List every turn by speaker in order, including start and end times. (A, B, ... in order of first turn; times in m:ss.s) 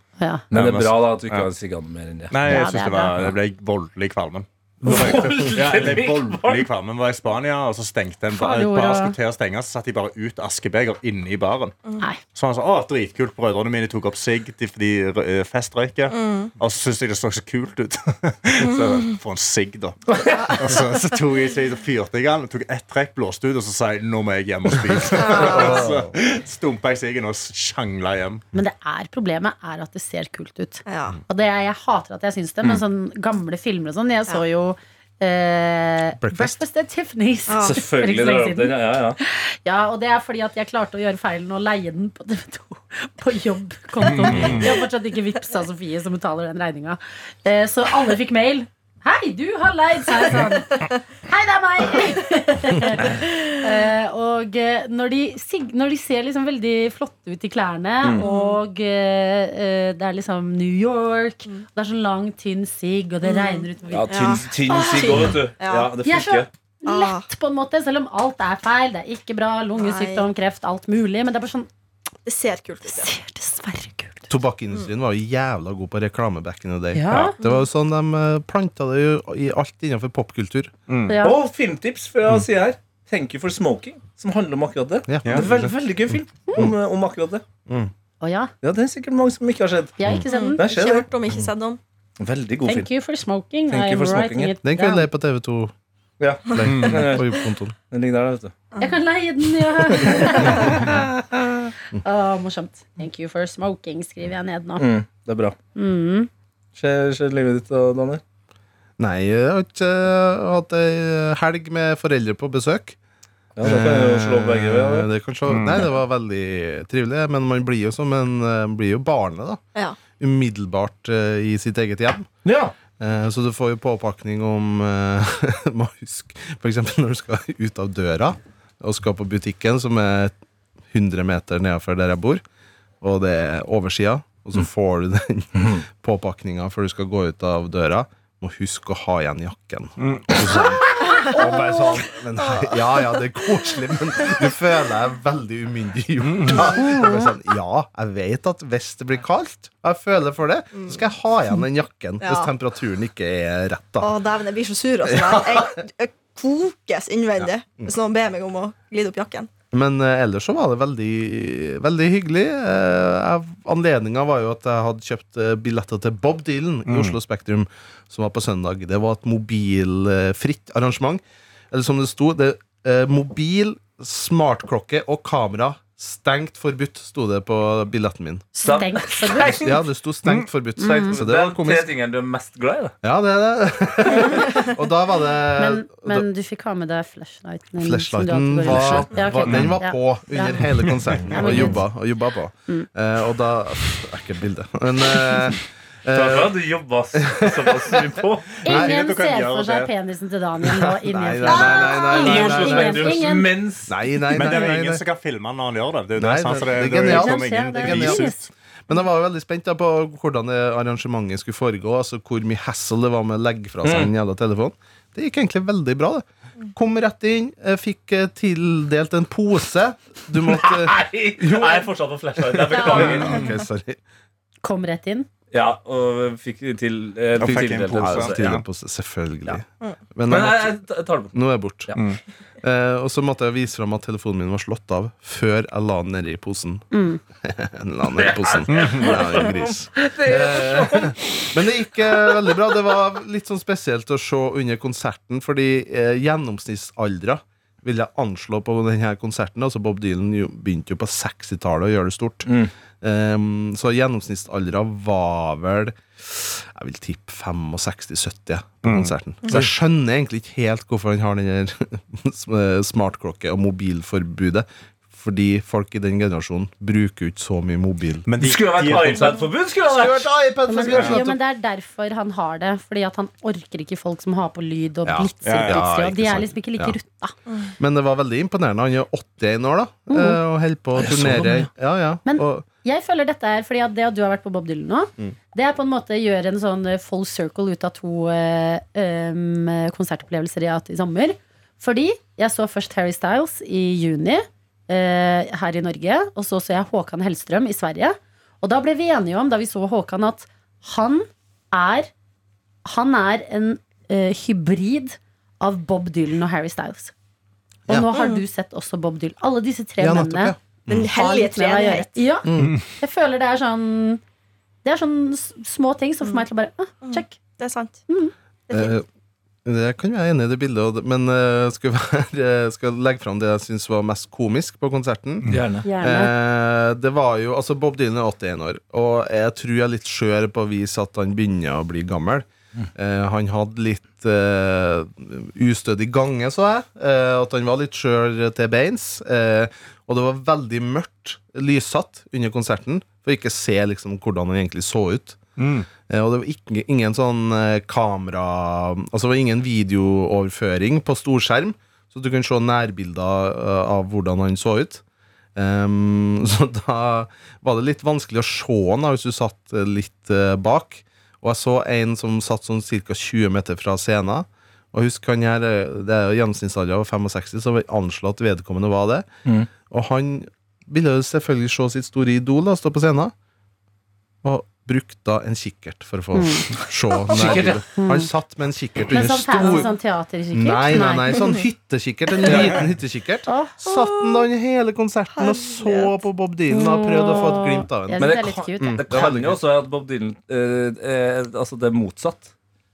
0:00.2-0:00.4 A
0:00.5-0:01.5 B
0:00.5-0:02.4 C
0:02.3-0:11.8 B
0:02.4-0:03.1 A
0:04.8-0:06.7 C
0:08.3-0:09.2 A
0:12.3-0:28.4 B
0:16.1-0:16.5 D
0:18.6-0:19.0 D
0:20.3-0:21.0 D
0:25.2-0:25.8 D
0:25.2-0:26.1 E
0:28.5-1:05.4 A
0:30.8-0:31.2 D
0:36.2-0:36.6 E
0:37.5-0:37.8 D
0:37.6-0:39.2 C
0:44.1-0:44.6 B
0:44.2-0:44.7 D
0:53.1-0:53.4 D
0:58.2-0:58.6 D
1:03.2-1:05.9 D
1:03.9-1:06.5 C
1:06.0-1:11.7 A
1:06.8-1:07.3 D
1:09.8-1:10.3 D
1:12.2-1:13.1 D
1:12.9-1:14.3 A
1:14.3-1:20.7 E
1:16.9-1:17.4 A
1:17.4-1:17.6 D
1:20.9-1:21.2 B
1:21.0-1:21.4 A
1:21.2-1:27.4 C
1:25.1-1:25.7 E
1:28.2-1:28.5 A
1:28.6-1:31.1 C
1:30.0-1:30.6 A
1:30.3-1:31.8 D
1:32.2-1:32.9 C
1:32.6-1:35.1 A
1:33.7-1:34.5 C
1:34.6-1:35.7 E
1:36.2-1:38.5 C
1:36.4-1:37.7 E
1:36.6-1:37.0 B
1:38.7-1:39.0 D
1:38.8-1:41.0 A
1:40.0-1:40.6 C
1:40.4-1:40.8 D
1:42.0-1:44.8 A
1:44.8-1:45.6 C
1:45.7-1:46.3 A
1:46.8-1:48.2 C
1:49.0-1:53.0 E
1:53.6-1:55.1 C
1:53.6-1:59.6 E
1:55.5-1:55.9 B
2:00.2-2:02.3 E
2:02.4-2:02.7 C
2:03.0-2:10.3 E
2:10.9-2:12.4 E
2:13.0-2:34.2 E
2:15.6-2:15.8 C
2:20.0-2:20.7 B
2:21.0-2:22.0 A
2:21.1-2:21.6 D
2:22.4-2:23.2 D
2:26.2-2:27.2 B
2:32.2-2:32.5 D
2:34.0-2:39.5 D
2:35.0-2:35.8 E
2:39.7-2:58.5 E
2:46.8-2:47.2 B
2:58.6-2:59.7 A
2:58.6-2:59.7 C
2:59.4-3:01.9 E
3:00.8-3:01.2 A
3:01.1-3:02.9 C
3:03.0-3:06.2 E
3:05.6-3:11.9 A
3:07.8-3:16.5 E
3:09.4-3:09.7 C
3:10.9-3:11.4 B
3:16.1-3:18.6 C
3:17.1-3:18.9 E
3:18.6-3:23.5 A
3:18.7-3:19.9 B
3:20.6-3:23.3 E
3:21.5-3:21.8 D
3:22.1-3:24.0 C
3:23.9-3:25.0 E
3:24.2-3:28.5 B
3:26.2-3:28.3 E
3:26.8-3:28.4 A
3:28.9-3:44.0 E
3:33.8-3:34.1 C
3:40.4-3:43.5 C
3:42.8-3:43.5 D
3:44.6-3:45.3 A
3:45.5-3:48.4 C
3:47.4-3:48.6 B
3:47.5-3:50.8 E
3:50.3-3:51.3 C
3:51.3-3:51.9 E
3:52.6-3:56.8 E
3:56.9-3:57.2 A
3:57.4-4:28.3 E
3:58.1-4:01.5 C
3:58.7-3:59.2 B
4:12.4-4:12.7 C
4:18.8-4:19.1 B
4:28.2-4:29.4 B
4:28.4-4:30.3 C
4:29.8-4:31.4 E
4:30.6-4:37.3 A
4:30.9-4:31.2 B
4:35.0-4:37.0 E
4:35.4-4:35.8 B
4:37.8-4:42.6 E
4:40.1-4:40.4 A
4:40.9-4:41.7 C
4:42.2-5:02.1 A
5:02.8-5:07.1 A
5:07.9-5:14.2 A
5:08.1-5:08.4 D
5:10.0-5:11.1 E
5:10.9-5:12.3 D
5:12.4-5:12.8 E
5:14.8-5:17.4 A
5:17.0-5:18.0 D
5:18.1-5:18.3 A
5:18.7-5:18.9 D
5:18.7-5:19.0 E
5:19.6-5:55.0 E
5:25.5-5:25.9 C
5:25.8-5:26.3 A
5:45.6-5:45.9 B
5:55.6-6:09.2 E
6:09.9-6:13.3 E
6:14.4-6:19.9 E
6:16.3-6:16.7 A
6:17.3-6:17.8 C
6:18.0-6:18.3 A
6:19.1-6:21.5 A
6:20.5-6:29.6 E
6:23.5-6:23.8 A
6:23.8-6:24.4 D
6:25.4-6:26.2 D
6:26.7-6:29.0 A
6:28.2-6:32.5 C